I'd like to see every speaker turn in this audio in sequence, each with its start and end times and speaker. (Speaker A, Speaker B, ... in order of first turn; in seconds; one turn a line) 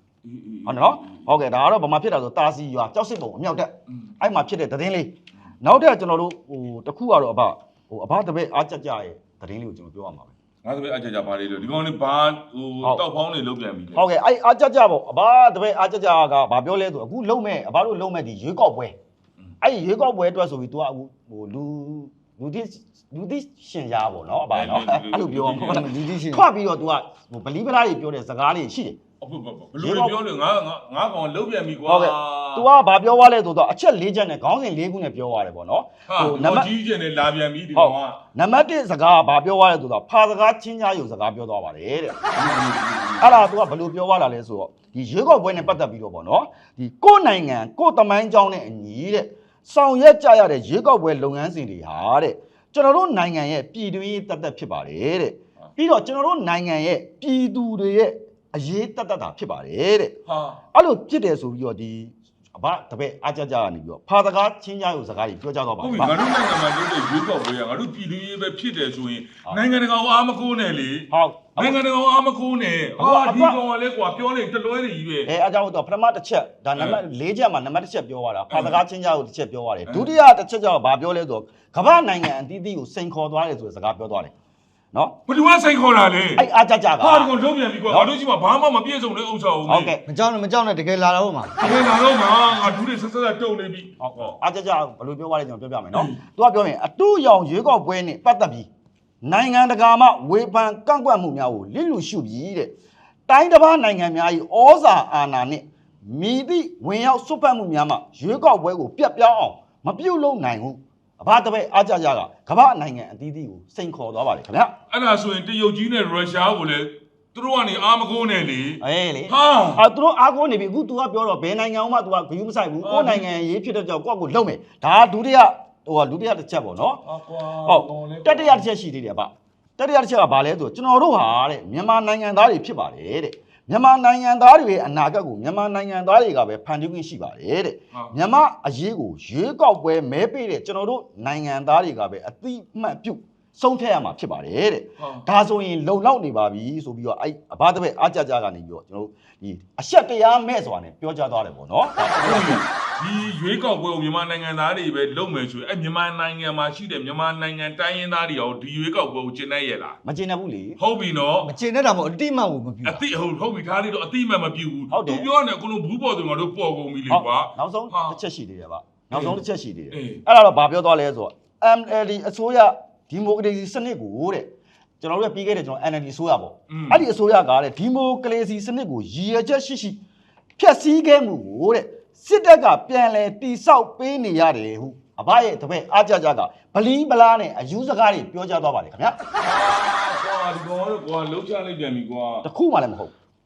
Speaker A: 0.2-1.3
Speaker B: 0.7-10.3
Speaker A: 10.6-14.1
Speaker B: 13.9-19.0
Speaker B: 19.6-29.0
Speaker A: 24.5-25.9
Speaker C: 25.6-26.4
Speaker A: 29.2-32.6
Speaker B: 29.8-30.2
Speaker B: 31.9-36.7
Speaker A: 36.1-38.2
Speaker B: 37.7-42.2
Speaker A: 42.3-43.5
Speaker B: 43.2-60.2
Speaker A: 60.3-60.6
Speaker B: 60.7-66.2
Speaker A: 65.8-75.3
Speaker B: 71.1-71.8
Speaker B: 73.0-73.6
Speaker B: 75.3-84.3
Speaker A: 76.8-77.0
Speaker A: 78.5-78.8
Speaker A: 79.8-80.1
Speaker A: 85.3-86.5
Speaker B: 86.3-87.3
Speaker A: 87.0-89.9
Speaker B: 89.7-90.0
Speaker C: 90.0-91.6
Speaker A: 91.6-94.3
Speaker B: 94.0-98.7
Speaker A: 95.9-96.2
Speaker B: 99.2-102.7
Speaker B: 103.3-114.7
Speaker A: 114.9-119.8
Speaker B: 118.8-127.0
Speaker A: 122.8-123.3
Speaker A: 127.0-128.7
Speaker B: 127.7-152.6
Speaker A: 145.0-145.2
Speaker A: 152.2-160.0
Speaker B: 160.0-160.8
Speaker A: 160.8-161.5
Speaker C: 161.4-163.0
Speaker A: 162.8-168.2
Speaker B: 164.9-165.3
Speaker B: 167.1-180.0
Speaker A: 169.1-170.2
Speaker A: 176.7-177.0
Speaker B: 180.6-189.2
Speaker A: 189.4-192.5
Speaker B: 192.4-193.1